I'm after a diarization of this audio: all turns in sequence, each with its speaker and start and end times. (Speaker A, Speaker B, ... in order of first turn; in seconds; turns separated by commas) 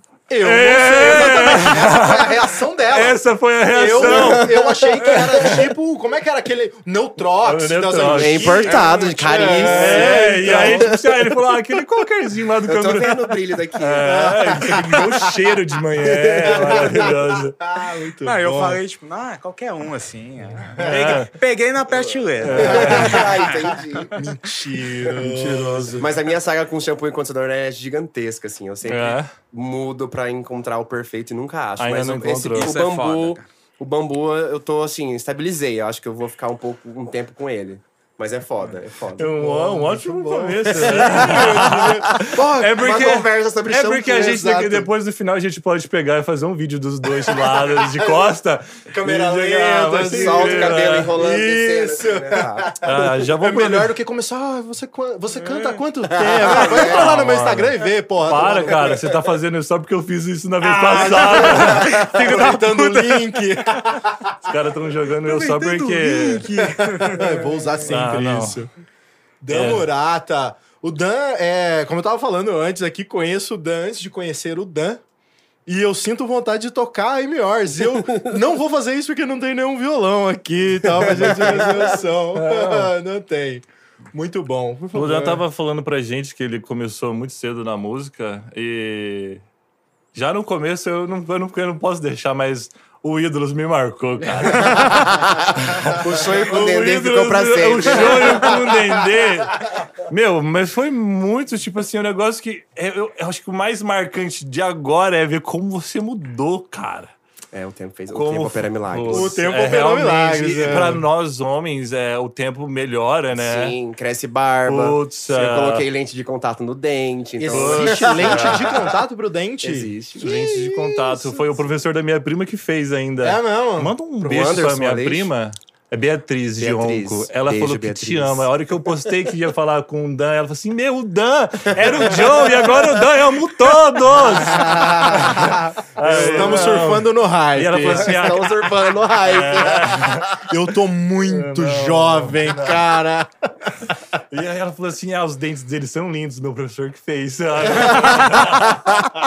Speaker A: 0.3-10.9, Speaker B: 0.4-4.5, Speaker C: 3.8-5.5, Speaker B: 5.0-5.7, Speaker B: 7.4-8.7, Speaker C: 8.0-11.0, Speaker D: 8.7-9.7, Speaker B: 9.7-17.6, Speaker C: 12.6-14.6, Speaker A: 14.0-15.4, Speaker C: 16.0-17.2, Speaker A: 16.4-18.8, Speaker D: 18.2-23.6, Speaker B: 20.8-21.3, Speaker C: 21.9-24.1, Speaker B: 22.4-23.3, Speaker A: 22.6-23.3, Speaker A: 24.1-26.0, Speaker B: 24.7-26.1, Speaker C: 26.0-39.3, Speaker B: 28.9-29.3, Speaker B: 31.8-32.8, Speaker D: 32.5-33.5, Speaker B: 39.2-51.1, Speaker A: 39.4-44.9, Speaker C: 40.7-44.5, Speaker A: 47.2-48.3, Speaker A: 48.9-59.0, Speaker C: 50.1-53.0, Speaker B: 52.8-53.9, Speaker C: 56.1-57.2, Speaker B: 56.5-62.1, Speaker C: 58.3-59.1, Speaker A: 60.6-64.3, Speaker D: 61.3-63.9, Speaker B: 64.4-66.5, Speaker D: 65.2-67.8, Speaker A: 66.5-68.7, Speaker B: 67.8-68.6, Speaker A: 69.4-75.0, Speaker B: 69.5-69.9, Speaker A: 75.7-85.4, Speaker C: 78.1-78.3, Speaker C: 81.1-82.0, Speaker B: 82.3-82.9, Speaker B: 84.9-89.4, Speaker B: 90.1-107.1, Speaker A: 94.6-95.1, Speaker C: 95.9-98.6, Speaker A: 98.1-98.5, Speaker C: 107.5-109.3, Speaker B: 108.1-113.8, Speaker A: 109.1-111.0, Speaker C: 113.3-119.0, Speaker B: 114.7-115.9, Speaker A: 117.4-121.5, Speaker B: 117.5-118.9, Speaker C: 119.6-120.4, Speaker B: 120.2-138.7, Speaker A: 123.2-124.0, Speaker C: 124.2-125.3, Speaker C: 126.6-128.5, Speaker A: 134.3-138.2, Speaker C: 136.1-136.8, Speaker C: 137.8-140.2, Speaker B: 139.2-140.5, Speaker A: 140.4-143.9, Speaker B: 141.2-142.9, Speaker B: 144.3-148.9